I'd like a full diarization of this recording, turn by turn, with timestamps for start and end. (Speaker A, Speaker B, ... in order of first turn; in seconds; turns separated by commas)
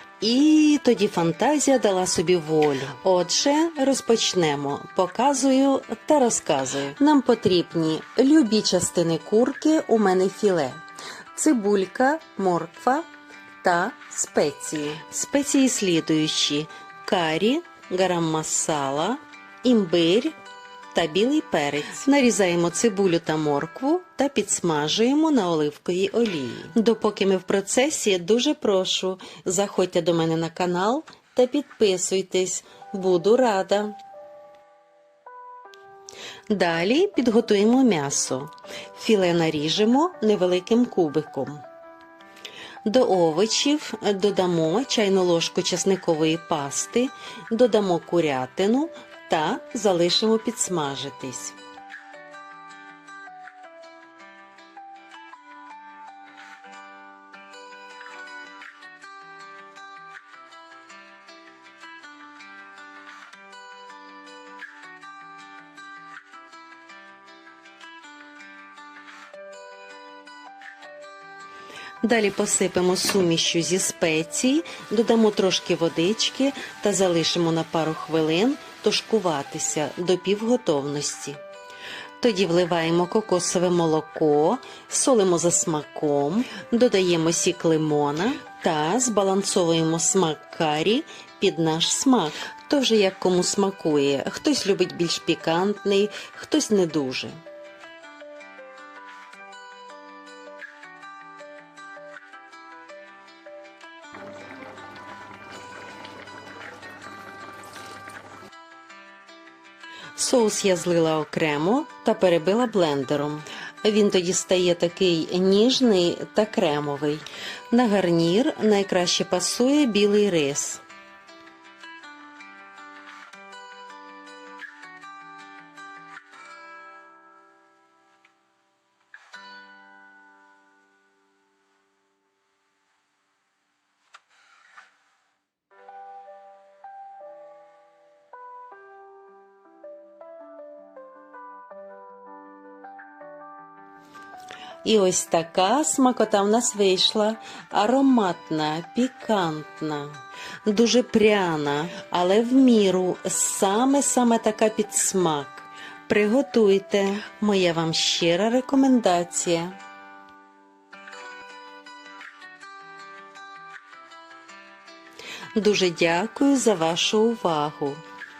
Speaker A: 0.2-10.8, Speaker A: 11.3-13.1, Speaker A: 13.6-20.4, Speaker A: 20.9-34.0, Speaker A: 36.5-41.6, Speaker A: 42.8-51.6, Speaker A: 72.0-81.4, Speaker A: 82.2-97.4, Speaker A: 110.1-120.8, Speaker A: 144.8-159.8, Speaker A: 165.5-168.0